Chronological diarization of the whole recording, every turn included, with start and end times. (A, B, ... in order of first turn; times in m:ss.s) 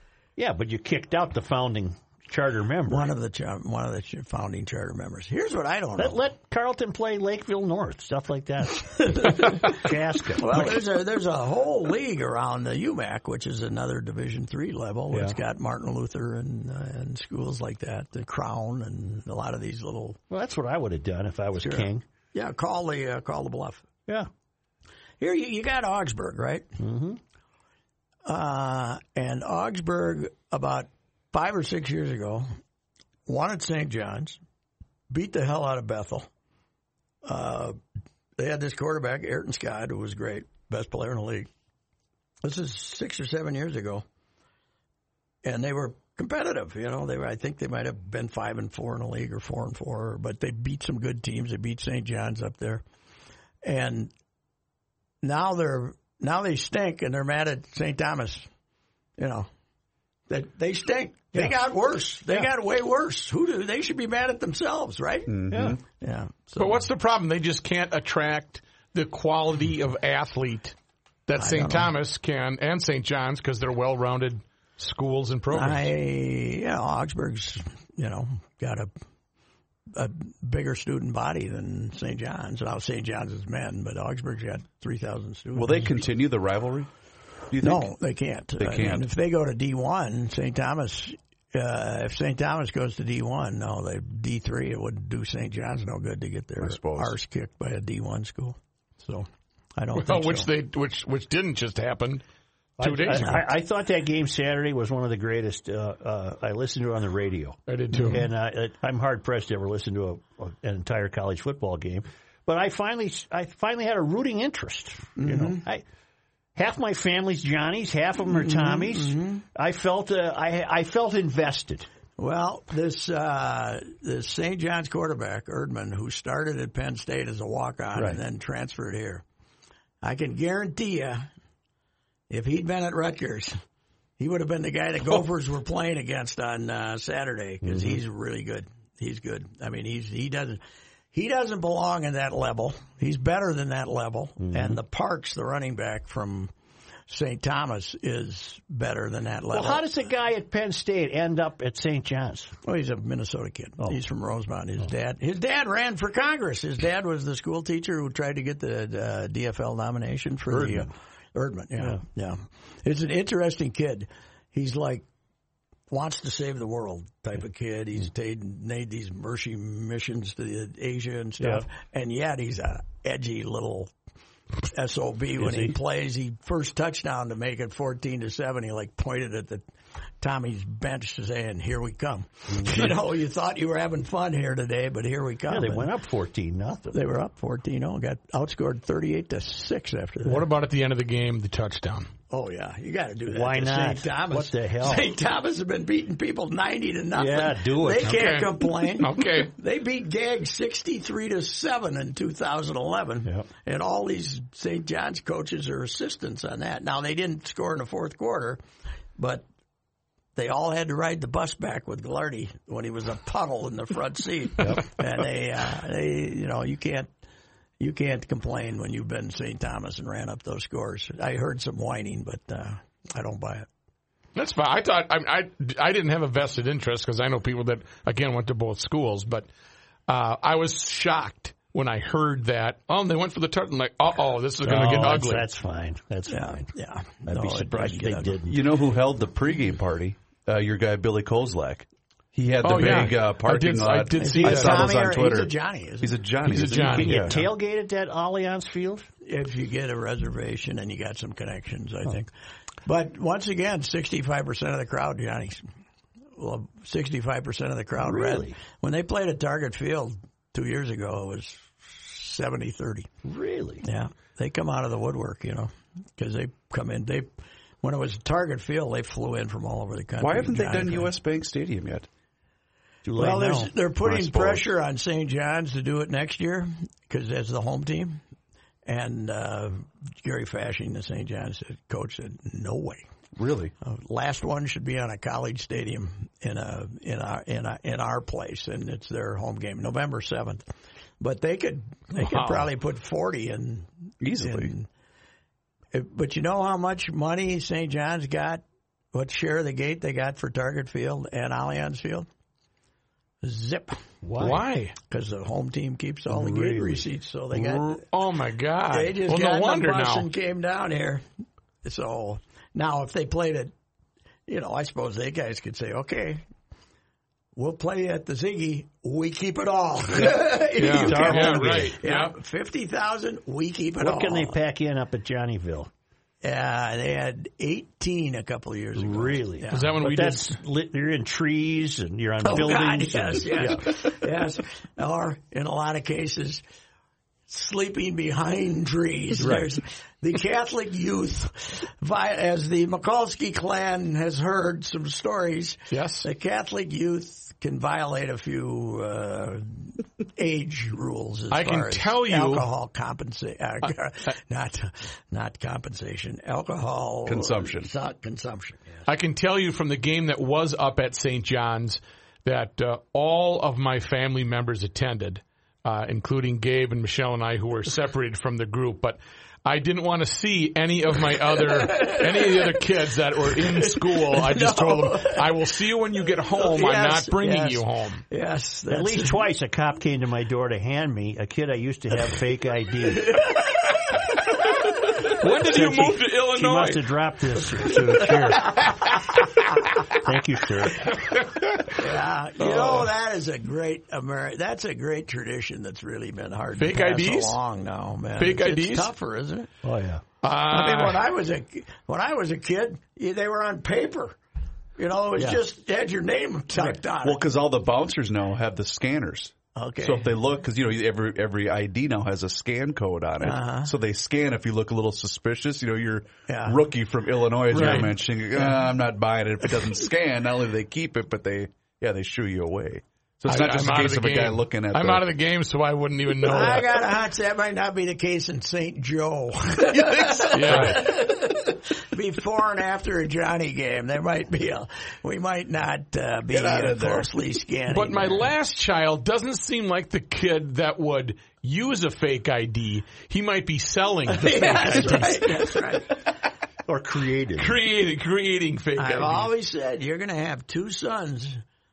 0:00.4-0:03.1 A
0:02.9-0:06.2 B
0:06.0-0:10.8 A
0:08.9-0:09.8 B
0:10.4-0:20.2 B
0:15.1-0:15.4 A
0:20.3-0:22.0 A
0:21.6-0:23.9 B
0:25.2-0:26.7 B
0:26.8-0:27.2 A
0:28.2-0:32.5 B
0:33.3-0:34.4 B
0:35.1-0:36.3 B
0:37.2-0:37.8 B
0:38.4-0:41.5 B
0:42.4-0:44.0 B
0:45.4-0:52.8 B
0:53.6-0:54.1 B
0:55.2-0:58.5 B
0:59.2-0:59.5 B
1:00.3-1:05.3 B
1:05.3-1:05.8 C
1:05.5-1:05.8 A
1:06.0-1:06.9 B
1:06.6-1:10.7 D
1:11.3-1:15.9 D
1:11.4-1:11.9 B
1:15.5-1:18.9 B
1:19.9-1:26.1 B
1:25.5-1:26.9 C
1:27.5-1:27.9 C
1:27.6-1:40.5 B
1:28.6-1:29.1 C
1:36.6-1:37.2 C
1:40.0-1:42.2 D
1:42.8-1:55.8 A
1:42.8-1:43.4 D
1:47.7-1:48.2 D
1:55.2-1:55.6 B
1:56.5-2:01.9 A
1:58.3-1:59.4 B
2:02.2-2:09.2 B
2:07.9-2:08.2 A
2:10.0-2:11.3 B
2:12.3-2:13.6 B
2:14.2-2:20.6 B
2:17.6-2:18.0 A
2:21.1-2:26.5 B
2:24.4-2:24.8 A
2:27.1-2:29.8 B
2:29.5-2:32.5 A
2:32.6-2:45.0 B
2:40.5-2:40.9 A
2:45.9-2:53.9 B
2:51.4-2:51.6 A
2:54.6-2:59.6 B
2:55.4-2:55.8 A
3:00.2-3:05.9 B
3:02.5-3:02.9 A
3:05.5-3:07.0 A
3:06.9-3:10.4 B
3:10.2-3:12.1 D
3:12.3-3:28.6 B
3:13.3-3:15.1 A
3:17.1-3:18.2 A
3:18.0-3:19.5 D
3:29.2-3:29.4 B
3:30.3-3:37.1 B
3:34.6-3:34.8 A
3:37.8-3:43.7 B
3:44.3-3:49.5 D
3:50.1-3:55.5 D
3:54.6-3:56.7 A
3:56.3-3:58.4 B
3:57.2-3:58.6 A
3:58.4-4:07.4 C
4:02.6-4:05.0 D
4:04.2-4:06.2 B
4:06.4-4:07.3 D
4:06.6-4:09.0 A
4:09.2-4:12.3 B
4:12.8-4:15.6 B
4:16.4-4:23.1 B
4:18.0-4:18.6 A
4:23.2-4:23.8 A
4:23.8-4:27.3 B
4:27.8-4:31.1 B
4:30.2-4:32.1 C
4:33.0-4:33.7 A
4:33.2-4:38.2 B
4:34.0-4:34.7 C
4:38.8-4:43.0 B
4:43.4-4:43.7 C
4:43.8-4:50.6 B
4:51.2-4:53.9 B
4:52.2-4:52.7 D
4:54.2-4:54.7 C
4:54.4-4:54.9 B
4:55.9-5:02.3 B
5:03.4-5:04.0 B
5:04.2-5:04.6 A
5:04.4-5:04.9 D
5:05.0-5:08.0 B
5:06.3-5:07.0 A
5:07.5-5:10.3 D
5:08.9-5:11.2 B
5:11.8-5:13.7 B
5:14.5-5:16.4 B
5:17.5-5:24.6 B
5:20.1-5:22.0 A
5:20.7-5:22.4 D
5:24.0-5:25.9 A
5:26.4-5:30.0 B
5:28.9-5:34.0 A
5:29.7-5:30.5 D
5:32.4-5:36.6 B
5:37.5-5:59.0 B
5:39.4-5:39.7 A
5:45.9-5:46.3 D
5:51.5-5:52.7 D
5:57.2-5:57.9 C
5:59.1-6:18.2 D
6:11.6-6:12.8 B
6:13.5-6:15.8 B
6:16.5-6:19.4 B
6:18.9-6:23.5 A
6:24.8-6:27.1 D
6:25.6-6:29.0 A
6:29.8-6:31.2 A
6:31.8-6:39.7 B
6:36.8-6:37.6 D
6:38.4-6:39.1 D
6:39.8-6:40.2 A
6:40.4-6:41.2 D
6:40.7-6:44.4 B
6:45.0-6:47.4 B
6:47.2-7:05.3 C
6:49.7-6:50.3 B
6:53.4-6:53.9 B
6:56.5-6:56.8 B
6:57.7-6:58.1 D
6:57.7-6:58.8 B
7:03.5-7:07.0 D
7:06.4-7:18.5 B
7:09.8-7:11.1 C
7:10.5-7:11.1 D
7:16.5-7:17.3 C
7:17.9-7:25.6 D
7:24.3-7:26.2 B
7:26.9-7:27.8 A
7:27.6-7:29.5 D
7:29.0-7:31.6 B